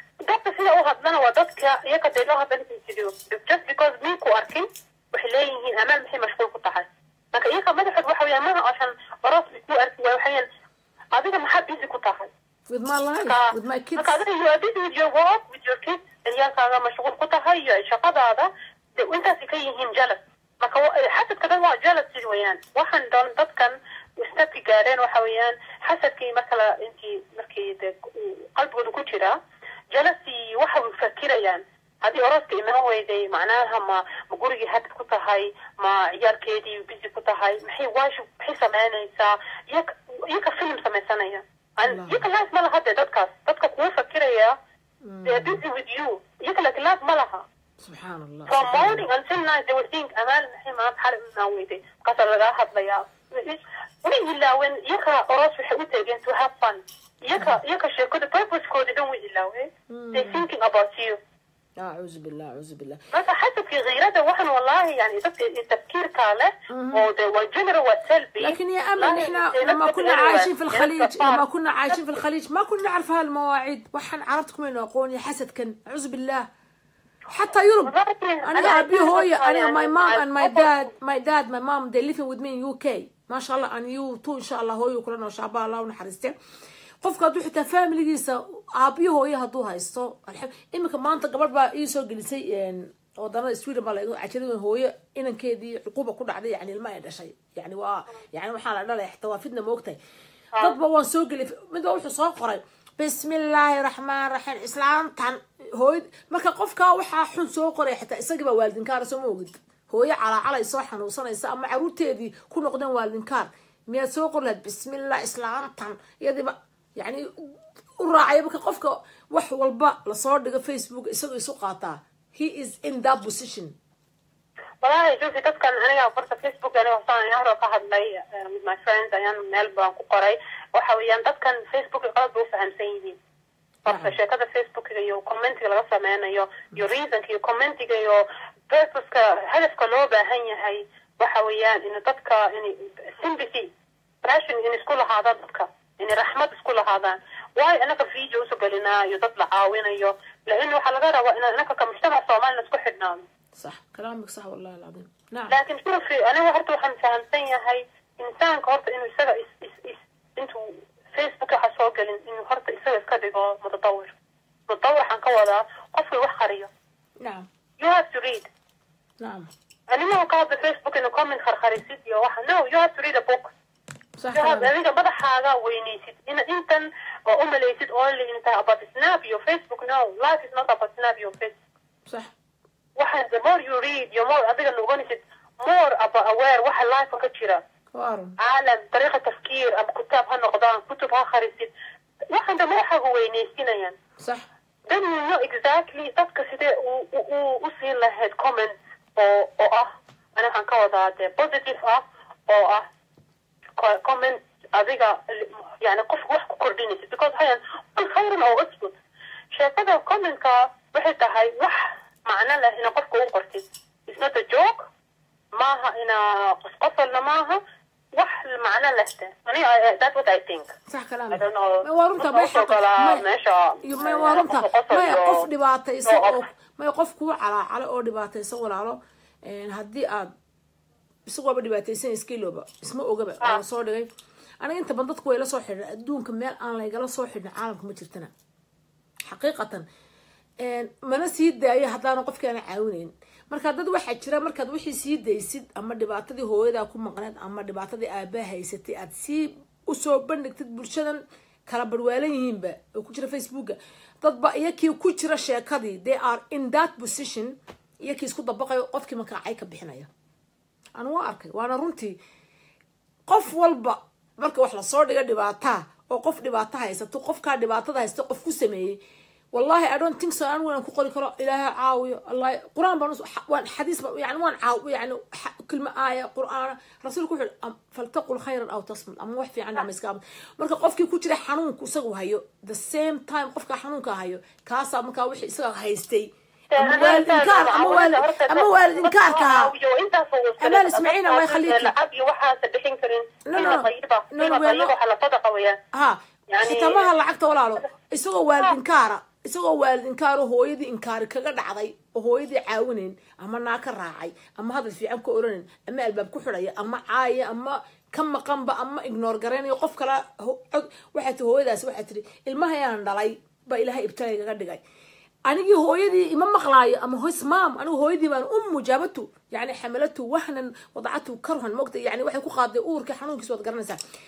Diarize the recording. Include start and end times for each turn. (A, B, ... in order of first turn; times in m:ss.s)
0:00.2-0:10.5 A
0:11.1-0:12.3 A
0:12.7-0:14.1 B
0:13.2-0:29.4 A
0:29.9-0:44.6 A
0:41.8-0:42.2 B
0:45.0-0:45.6 B
0:45.3-0:47.4 A
0:47.8-0:49.0 B
0:48.5-1:01.2 A
0:59.9-1:00.5 B
1:01.8-1:03.0 B
1:03.1-1:11.4 A
1:06.7-1:07.0 B
1:08.4-1:16.5 B
1:17.3-1:26.3 B
1:17.8-1:20.9 A
1:27.0-1:40.0 B
1:40.6-1:57.3 B
1:58.0-2:03.8 B
2:04.8-2:13.2 A
2:13.9-2:23.7 A
2:13.9-2:14.2 B
2:24.2-2:33.2 A
2:33.6-2:35.6 B
2:35.5-2:44.1 A
2:44.7-2:46.7 A
2:47.2-2:47.5 B
2:47.8-2:48.5 A
2:49.2-2:49.5 B
2:49.9-2:53.5 A
2:54.2-2:54.7 B
2:54.3-3:01.6 A
3:03.0-3:07.6 A
3:07.9-3:08.4 B
3:08.4-3:11.7 A
3:12.3-3:14.0 A
3:14.2-3:14.4 B
3:14.9-3:22.9 A
3:23.8-3:29.0 A
3:29.6-3:34.9 A
3:35.6-3:37.6 A
3:38.2-3:40.7 A
3:40.9-3:43.2 B
3:41.3-3:45.5 A
3:43.8-3:50.3 B
3:46.1-3:46.4 A
3:51.3-3:54.1 B
3:54.6-3:58.3 B
3:59.3-3:59.8 B
4:00.6-4:20.1 B
4:21.0-4:22.2 B
4:23.3-4:29.0 B
4:29.5-4:49.7 B
4:46.7-4:55.8 A
4:50.6-4:51.9 B
4:53.5-4:54.9 B
4:55.9-5:14.8 B
4:56.5-4:57.1 A
5:15.5-5:24.0 B